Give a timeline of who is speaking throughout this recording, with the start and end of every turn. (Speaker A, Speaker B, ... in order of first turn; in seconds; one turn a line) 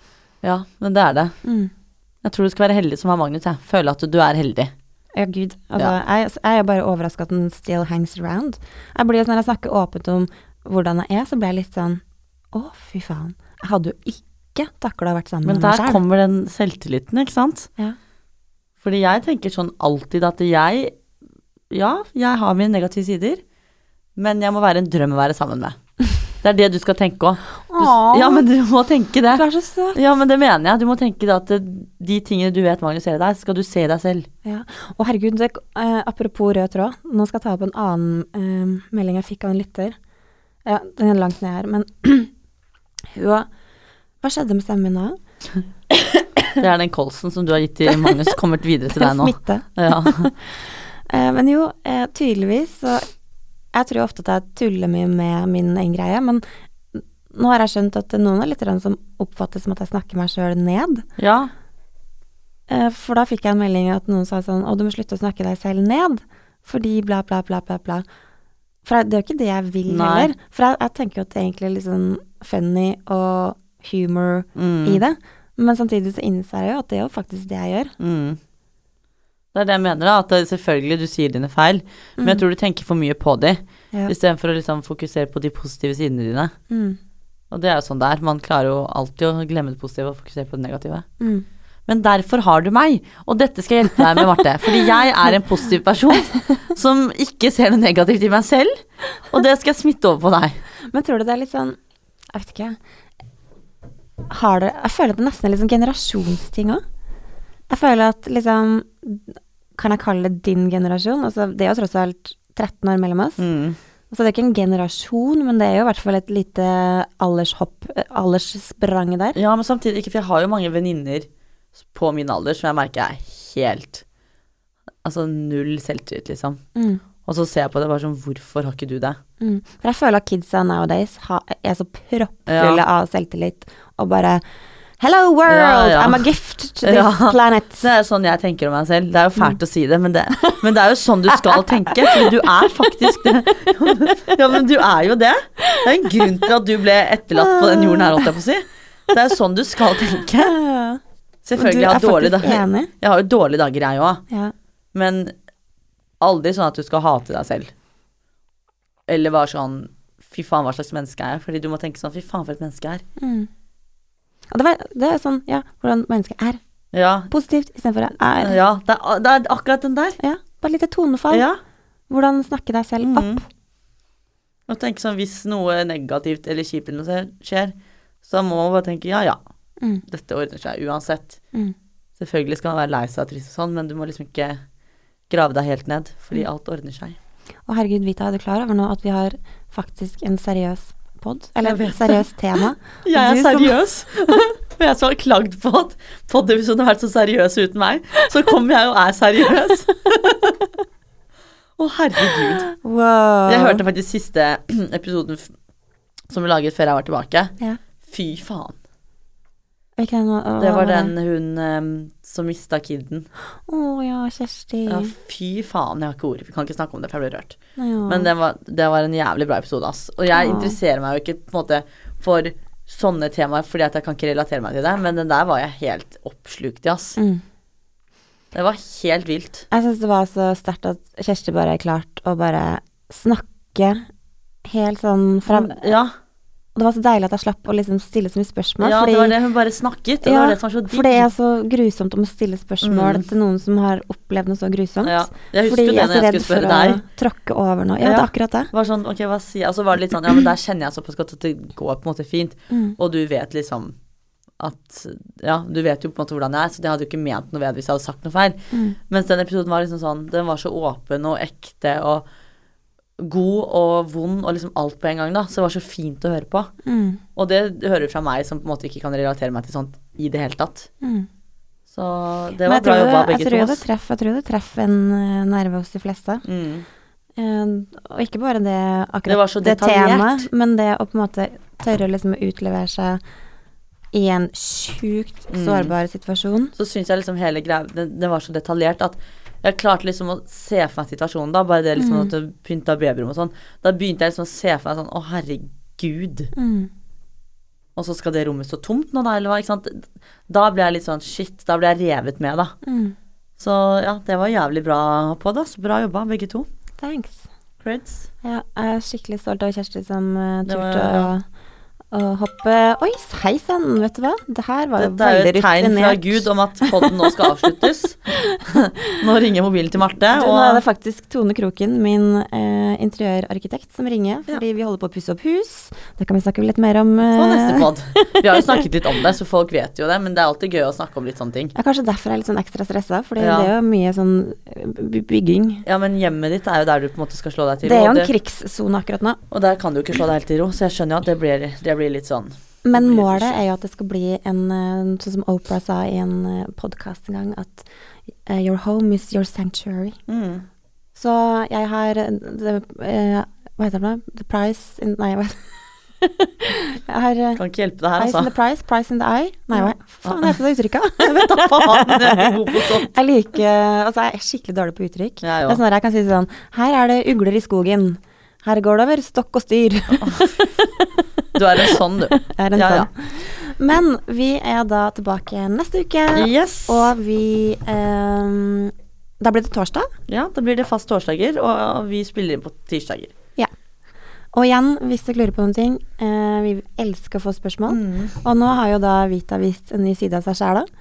Speaker A: 0.4-1.4
Speaker B: 1.4-1.7
Speaker A: 2.2-4.7
Speaker B: 5.2-12.0
Speaker B: 12.5-16.0
Speaker A: 15.4-17.7
Speaker A: 18.8-21.0
Speaker A: 21.7-23.4
Speaker A: 24.2-25.8
Speaker A: 26.4-34.3
Speaker B: 27.7-28.5
Speaker B: 29.3-30.0
Speaker B: 34.5-40.0
Speaker B: 40.6-42.3
Speaker B: 43.1-43.5
Speaker B: 44.2-45.2
Speaker A: 45.9-50.3
Speaker B: 47.9-48.3
Speaker B: 48.9-53.1
Speaker B: 53.7-56.4
Speaker B: 56.9-61.0
Speaker A: 61.2-61.5
Speaker B: 62.7-68.0
Speaker B: 68.8-77.9
Speaker A: 69.9-70.3
Speaker A: 74.5-75.0
Speaker A: 78.0-78.4
Speaker A: 79.5-86.5
Speaker B: 82.2-82.4
Speaker B: 86.7-87.0
Speaker A: 87.5-91.1
Speaker B: 91.2-91.5
Speaker A: 91.9-100.6
Speaker B: 100.9-101.8
Speaker B: 102.3-102.8
Speaker B: 104.3-106.8
Speaker B: 107.7-113.4
Speaker A: 113.4-113.8
Speaker B: 114.1-119.4
Speaker A: 119.3-121.3
Speaker A: 121.9-124.0
Speaker A: 125.0-126.6
Speaker B: 126.8-127.0
Speaker A: 127.2-129.2
Speaker B: 129.4-134.4
Speaker A: 132.5-132.8
Speaker B: 135.0-137.9
Speaker A: 135.5-136.3
Speaker A: 136.8-150.6
Speaker B: 141.5-142.3
Speaker B: 144.1-144.4
Speaker B: 145.7-146.5
Speaker B: 147.4-148.3
Speaker B: 150.1-151.0
Speaker A: 151.4-154.2
Speaker B: 151.6-152.9
Speaker A: 154.9-155.3
Speaker A: 156.2-157.7
Speaker A: 159.1-163.0
Speaker B: 163.2-163.5
Speaker B: 164.5-166.6
Speaker A: 166.9-167.3
Speaker B: 167.3-168.6
Speaker A: 168.4-170.2
Speaker B: 170.2-171.5
Speaker A: 171.3-171.6
Speaker B: 172.1-173.4
Speaker A: 173.0-173.4
Speaker A: 174.7-179.4
Speaker A: 180.1-181.4
Speaker A: 182.2-184.6
Speaker A: 185.3-187.2
Speaker B: 187.7-193.8
Speaker A: 191.6-192.2
Speaker A: 193.1-200.6
Speaker A: 201.8-202.7
Speaker B: 202.3-203.8
Speaker A: 203.5-205.5
Speaker A: 206.3-208.8
Speaker B: 210.0-211.1
Speaker A: 210.6-213.3
Speaker B: 213.7-215.1
Speaker A: 214.9-217.6
Speaker B: 217.8-218.3
Speaker A: 218.1-227.2
Speaker B: 220.3-220.8
Speaker B: 227.2-227.4
Speaker A: 228.5-229.7
Speaker B: 229.7-234.1
Speaker B: 234.7-235.9
Speaker A: 235.5-236.1
Speaker B: 236.8-239.4
Speaker A: 238.8-241.3
Speaker B: 240.2-248.7
Speaker A: 242.8-243.3
Speaker A: 245.0-247.0
Speaker A: 248.0-254.0
Speaker B: 252.7-253.0
Speaker A: 254.6-262.2
Speaker B: 258.7-259.0
Speaker A: 263.2-266.7
Speaker B: 266.8-267.2
Speaker A: 267.4-270.9
Speaker B: 271.0-271.3
Speaker A: 271.9-273.8
Speaker B: 272.6-276.4
Speaker A: 276.4-276.9
Speaker B: 277.4-283.2
Speaker A: 279.3-280.5
Speaker B: 284.1-286.7
Speaker A: 285.5-285.9
Speaker A: 286.8-296.5
Speaker B: 292.0-292.3
Speaker B: 296.6-296.9
Speaker A: 298.0-302.8
Speaker B: 302.8-303.2
Speaker A: 303.6-306.7
Speaker B: 307.0-307.4
Speaker A: 307.8-308.3
Speaker B: 308.4-311.4
Speaker A: 310.7-311.3
Speaker B: 312.1-317.4
Speaker A: 315.0-320.8
Speaker B: 320.3-328.8
Speaker A: 327.3-331.7
Speaker B: 331.8-335.9
Speaker A: 333.4-333.7
Speaker A: 335.9-338.3
Speaker B: 337.8-339.4
Speaker A: 339.5-343.6
Speaker B: 342.9-347.9
Speaker B: 348.5-350.2
Speaker A: 350.3-350.7
Speaker B: 351.1-357.6
Speaker A: 357.6-358.5
Speaker B: 358.2-380.1
Speaker A: 359.8-360.6
Speaker A: 361.2-363.1
Speaker A: 365.4-365.8
Speaker A: 370.2-370.6
Speaker A: 371.6-373.1
Speaker A: 376.4-377.1
Speaker A: 380.3-383.3
Speaker B: 384.5-390.9
Speaker A: 387.9-388.4